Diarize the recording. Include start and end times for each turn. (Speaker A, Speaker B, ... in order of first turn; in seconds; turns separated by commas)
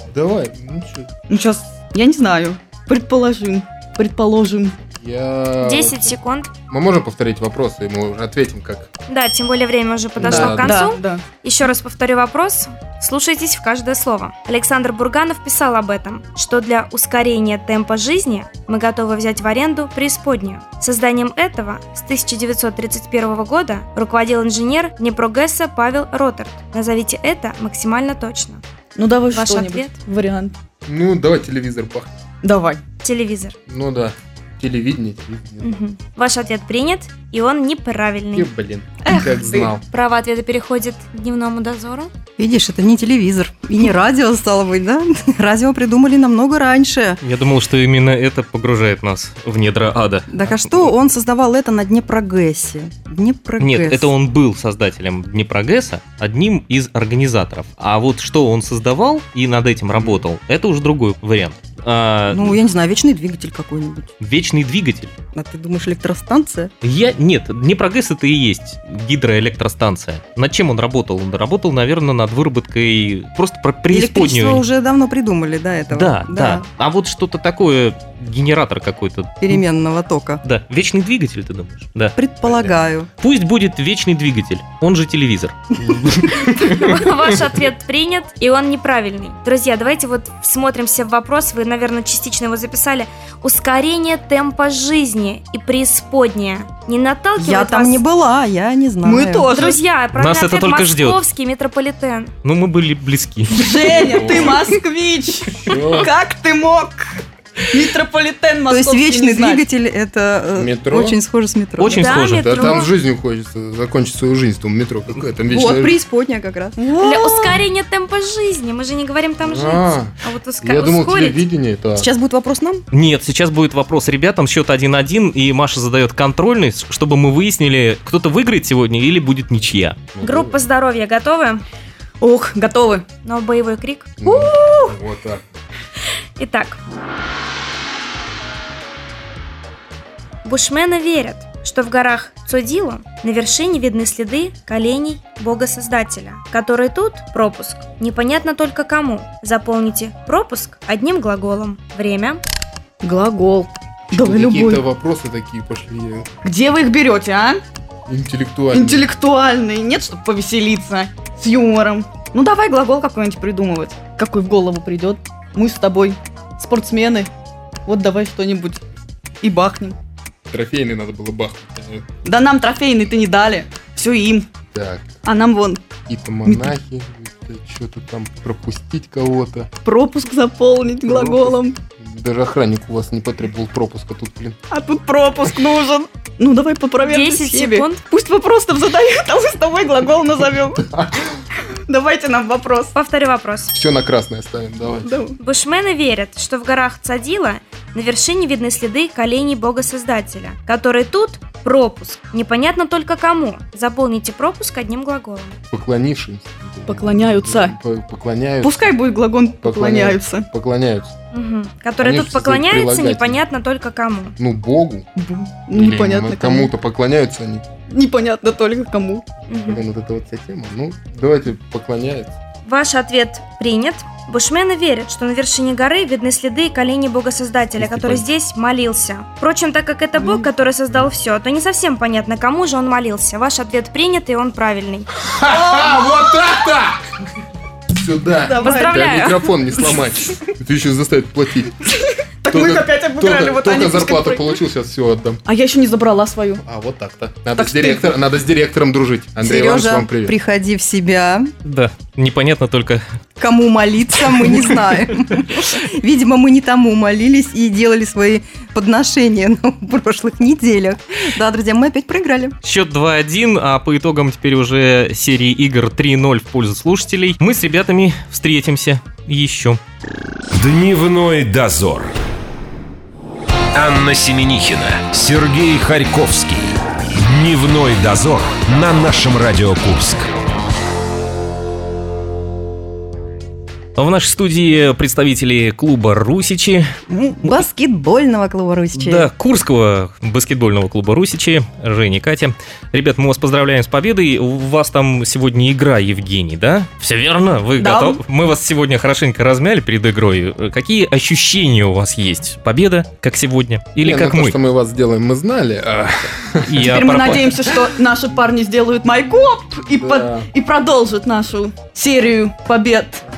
Speaker A: 0.1-1.1, Speaker B: 1.3-4.7, Speaker A: 4.9-6.2, Speaker C: 5.6-6.5, Speaker A: 6.7-8.9, Speaker C: 9.1-28.6, Speaker A: 10.2-10.9, Speaker B: 10.2-11.2, Speaker B: 28.9-30.5, Speaker C: 29.3-29.9, Speaker A: 30.8-32.1, Speaker B: 32.4-32.8, Speaker C: 33.0-33.5, Speaker A: 33.7-35.7, Speaker C: 35.6-38.5, Speaker A: 38.3-39.8, Speaker B: 39.0-39.8, Speaker C: 39.9-42.1, Speaker D: 42.4-47.2, Speaker E: 47.2-50.6, Speaker D: 50.3-54.1, Speaker E: 53.6-62.6, Speaker A: 59.9-60.2, Speaker D: 62.3-64.1, Speaker E: 64.2-65.1, Speaker D: 65.3-66.7, Speaker E: 66.8-74.6, Speaker D: 73.9-76.7, Speaker E: 75.9-79.6, Speaker D: 79.4-80.4, Speaker E: 80.4-82.2, Speaker D: 82.2-83.1, Speaker A: 82.4-82.7, Speaker E: 83.2-85.7, Speaker A: 85.8-86.9, Speaker C: 86.4-98.0, Speaker D: 97.4-99.6, Speaker B: 99.0-99.8, Speaker C: 99.5-102.3, Speaker E: 100.1-101.2, Speaker E: 102.4-104.0, Speaker B: 103.5-107.2, Speaker A: 103.8-104.8, Speaker A: 105.5-106.1, Speaker B: 107.7-109.6, Speaker D: 108.7-112.2, Speaker A: 110.5-111.2, Speaker E: 111.8-112.8, Speaker C: 111.9-112.9, Speaker A: 112.2-116.0, Speaker D: 115.5-117.3, Speaker B: 116.8-117.5, Speaker C: 117.0-121.4, Speaker A: 119.4-122.1, Speaker D: 121.9-122.8, Speaker E: 122.9-130.0, Speaker A: 130.1-130.6, Speaker C: 130.2-131.6, Speaker B: 132.2-133.0, Speaker C: 133.2-134.2, Speaker A: 134.2-135.4, Speaker B: 134.2-134.9, Speaker C: 136.4-136.8, Speaker C: 140.4-152.4, Speaker B: 153.0-154.8, Speaker A: 154.1-156.3, Speaker B: 156.4-157.6, Speaker A: 158.1-159.1, Speaker B: 158.7-167.3, Speaker B: 167.8-168.8, Speaker B: 169.4-169.9, Speaker A: 170.5-172.1, Speaker B: 172.2-174.5, Speaker A: 174.7-175.2, Speaker B: 175.2-175.9, Speaker A: 176.1-179.7, Speaker B: 176.4-176.7, Speaker B: 179.8-181.8, Speaker A: 181.1-184.6, Speaker B: 184.7-190.8, Speaker C: 187.0-188.0, Speaker A: 190.8-191.3, Speaker B: 191.9-192.9, Speaker C: 192.9-193.7, Speaker A: 193.7-195.2, Speaker B: 195.0-195.4, Speaker C: 195.4-205.6, Speaker A: 205.7-208.9, Speaker B: 206.9-207.8, Speaker B: 208.6-210.5, Speaker A: 209.6-211.1, Speaker C: 211.3-214.3, Speaker A: 212.0-213.4, Speaker A: 214.4-215.1, Speaker B: 215.2-216.7, Speaker A: 215.7-217.6, Speaker B: 217.9-219.3, Speaker C: 219.5-219.8, Speaker A: 219.5-222.3, Speaker C: 222.7-235.1, Speaker E: 227.8-228.2, Speaker A: 235.2-237.0, Speaker B: 235.5-236.3, Speaker A: 237.9-241.8, Speaker B: 238.4-239.2, Speaker C: 238.6-239.4, Speaker B: 242.4-244.6, Speaker A: 242.5-245.4, Speaker B: 245.4-246.6, Speaker A: 246.6-250.3, Speaker B: 247.6-248.1, Speaker D: 249.4-251.5, Speaker E: 251.6-253.0, Speaker D: 253.4-262.5, Speaker E: 254.3-255.0, Speaker E: 262.6-269.8, Speaker F: 270.5-272.1, Speaker F: 273.7-280.3, Speaker E: 284.0-287.6, Speaker D: 287.4-289.3, Speaker E: 288.9-304.6, Speaker B: 297.8-298.2, Speaker A: 304.0-306.9, Speaker E: 306.6-307.6, Speaker B: 306.8-313.2, Speaker A: 309.9-310.5